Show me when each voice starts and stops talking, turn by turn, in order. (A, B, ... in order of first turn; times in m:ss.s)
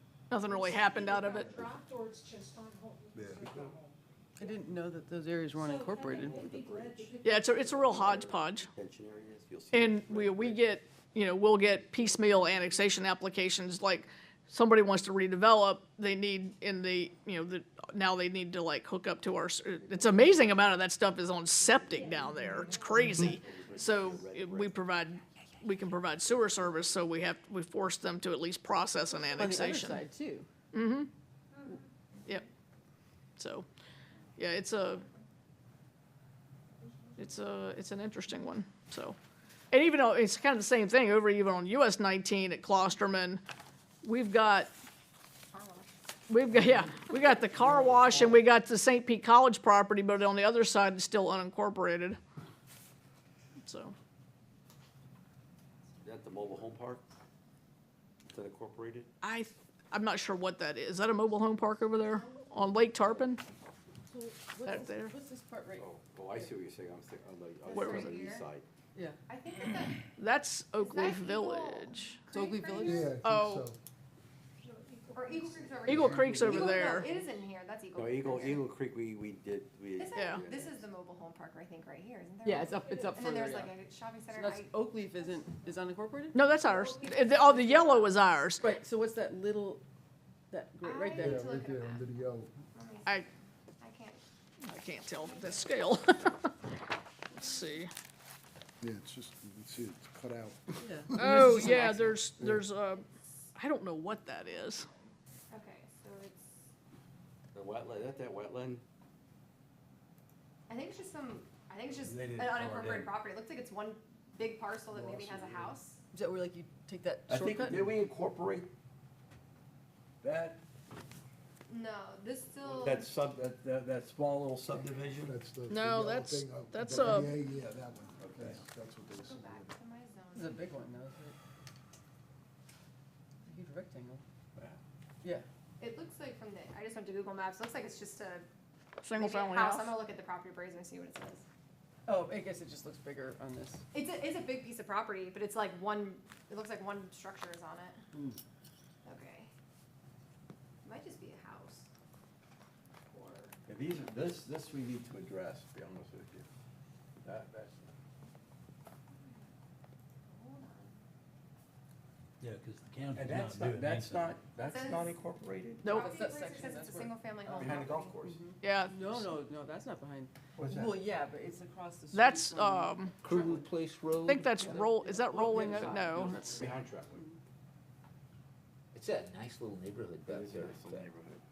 0:00.3-0:01.6 A
0:00.3-0:03.9 B
0:03.2-0:03.7 C
0:04.4-0:06.4 D
0:05.5-0:08.2 B
0:06.1-0:10.6 E
0:07.2-0:08.7 A
0:09.7-0:30.0 A
0:19.8-0:20.7 E
0:21.6-0:22.2 E
0:21.9-0:23.1 B
0:22.9-0:24.8 E
0:29.4-0:30.5 D
0:30.7-0:31.1 A
0:33.4-0:33.7 A
0:34.4-0:35.0 A
0:37.2-0:39.2 A
0:39.7-0:43.4 A
0:44.0-0:44.7 A
0:45.5-0:45.9 F
0:46.3-0:52.2 A
0:47.8-0:48.4 E
0:53.6-0:54.0 A
0:56.0-0:57.0 E
0:58.3-0:59.1 E
0:59.2-1:03.4 A
1:04.1-1:06.5 D
1:04.6-1:05.1 A
1:05.8-1:08.7 E
1:07.6-1:08.5 F
1:07.7-1:08.3 A
1:09.3-1:10.1 F
1:10.2-1:12.2 A
1:10.8-1:13.2 F
1:12.3-1:13.1 D
1:12.8-1:13.8 C
1:13.2-1:13.7 A
1:14.6-1:17.0 B
1:15.1-1:18.7 F
1:15.9-1:17.1 A
1:15.9-1:16.7 C
1:18.0-1:20.9 E
1:20.0-1:25.6 F
1:20.2-1:20.4 A
1:22.4-1:23.8 D
1:22.7-1:23.2 B
1:24.3-1:26.4 D
1:26.3-1:28.6 A
1:26.6-1:27.2 B
1:26.7-1:28.1 F
1:28.6-1:29.8 D
1:30.5-1:31.6 D
1:30.8-1:32.2 F
1:31.2-1:32.5 C
1:32.7-1:34.2 F
1:34.6-1:36.5 A
1:35.1-1:35.7 F
1:37.3-1:37.9 A
1:38.8-1:42.7 C
1:40.8-1:42.0 D
1:41.2-1:43.0 A
1:43.6-1:44.9 A
1:45.5-1:46.6 F
1:47.5-1:48.8 E
1:50.7-1:56.0 F
1:52.1-1:52.9 E
1:52.2-1:53.0 G
1:54.9-1:55.8 C
1:56.1-1:58.0 D
1:57.3-1:58.7 E
2:00.2-2:00.6 E
2:01.7-2:03.1 F
2:02.6-2:05.4 E
2:05.2-2:09.7 C
2:05.7-2:07.4 A
2:08.2-2:08.6 E
2:09.2-2:10.7 F
2:10.4-2:11.4 D
2:13.4-2:14.2 D
2:15.8-2:18.5 F
2:19.0-2:20.0 A
2:19.2-2:21.4 F
2:22.1-2:23.8 D
2:23.9-2:28.0 F
2:29.0-2:29.5 F
2:30.8-2:31.9 F
2:33.0-2:33.6 F
2:33.7-2:36.5 E
2:37.2-2:37.9 E
2:39.1-2:39.5 F
2:40.3-2:41.0 F
2:42.4-2:44.3 G
2:43.2-2:45.9 E
2:44.7-2:45.2 F
2:45.8-2:46.1 A
2:45.8-2:48.4 F
2:45.9-2:53.0 D
2:47.5-2:48.4 E
2:48.6-2:49.1 A
2:50.6-2:51.0 E
2:52.1-2:53.1 A
2:53.2-2:54.8 H
2:54.3-2:56.6 A
2:54.6-2:57.3 D
2:55.3-2:57.2 E
2:58.9-3:01.1 H
3:00.3-3:01.4 E